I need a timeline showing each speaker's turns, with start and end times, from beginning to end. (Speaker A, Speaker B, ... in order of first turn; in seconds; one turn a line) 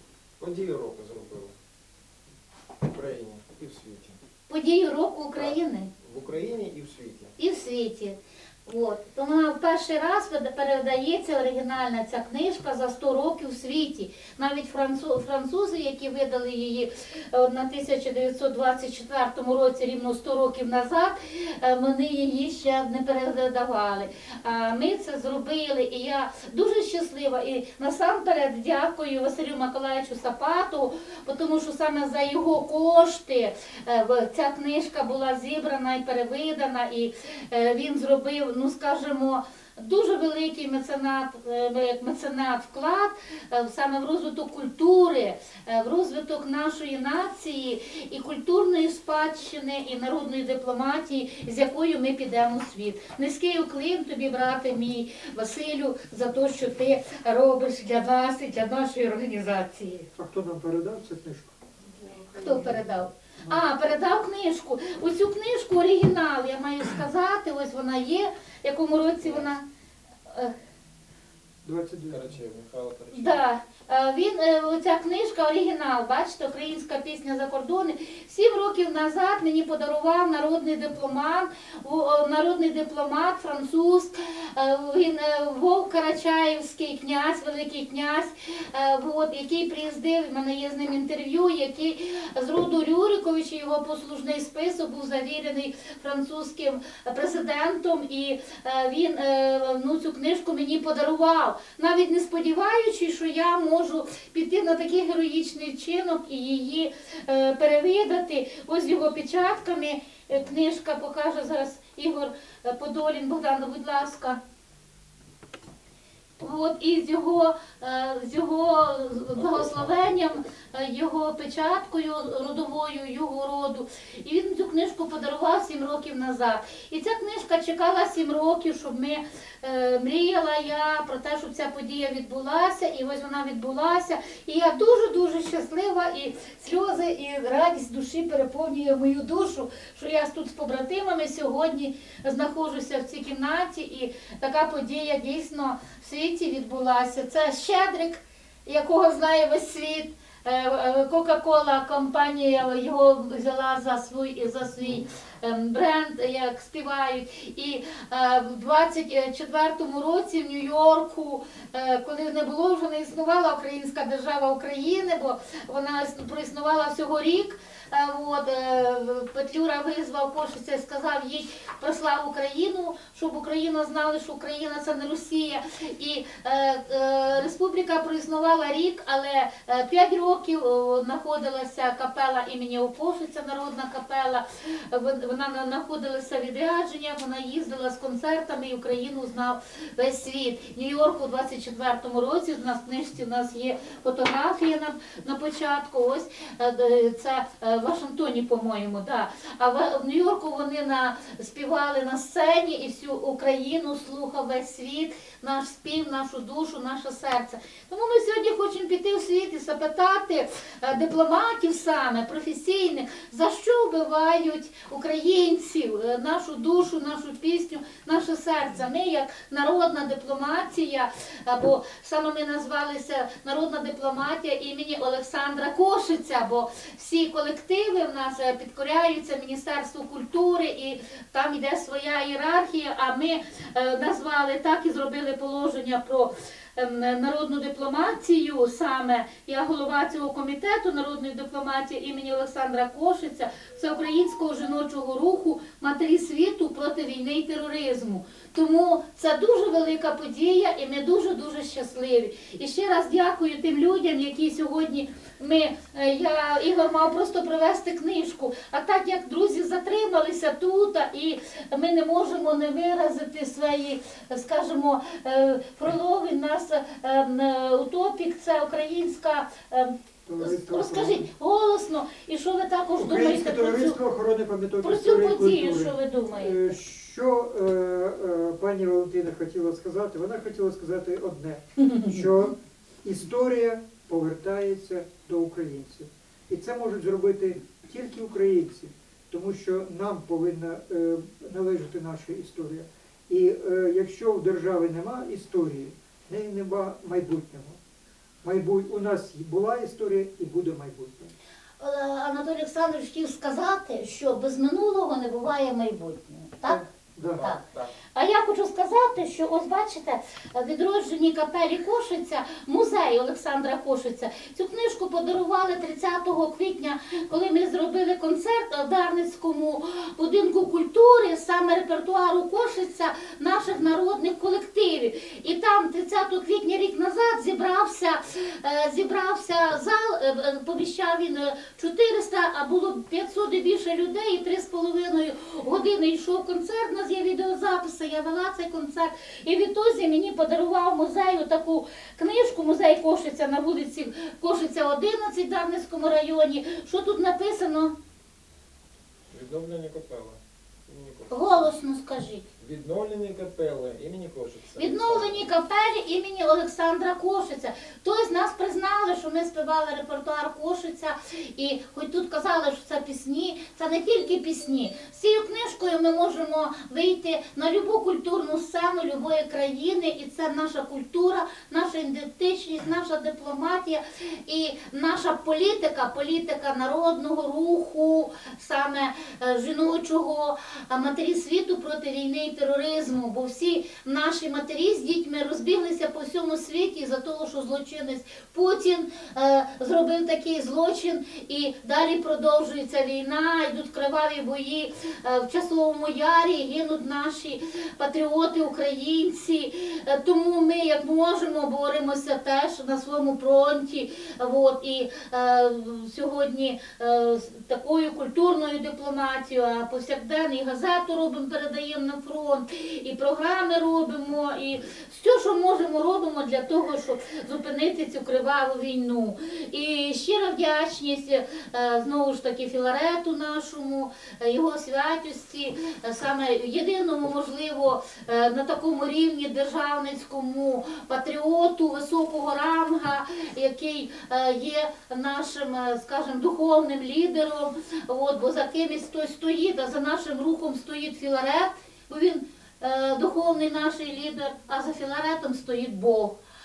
Speaker A: 0.4-1.5
Speaker A: 2.8-4.2
Speaker B: 4.5-5.9
Speaker A: 5.3-7.3
Speaker B: 7.4-60.1
Speaker C: 60.1-61.6
Speaker B: 62.3-69.7
Speaker A: 69.2-69.5
Speaker B: 70.3-70.5
Speaker C: 71.6-72.3
Speaker A: 72.1-73.4
Speaker B: 73.1-114.4
Speaker B: 116.4-274.0
Speaker A: 119.3-119.9
Speaker C: 270.3-271.3
Speaker C: 273.0-297.8
Speaker B: 274.8-276.7
Speaker B: 281.8-282.1
Speaker C: 298.4-301.3
Speaker B: 301.8-306.8
Speaker C: 306.7-307.5
Speaker A: 307.2-307.9
Speaker B: 308.1-347.9
Speaker A: 349.3-351.7
Speaker B: 351.3-352.4
Speaker A: 352.6-355.4
Speaker B: 354.8-446.4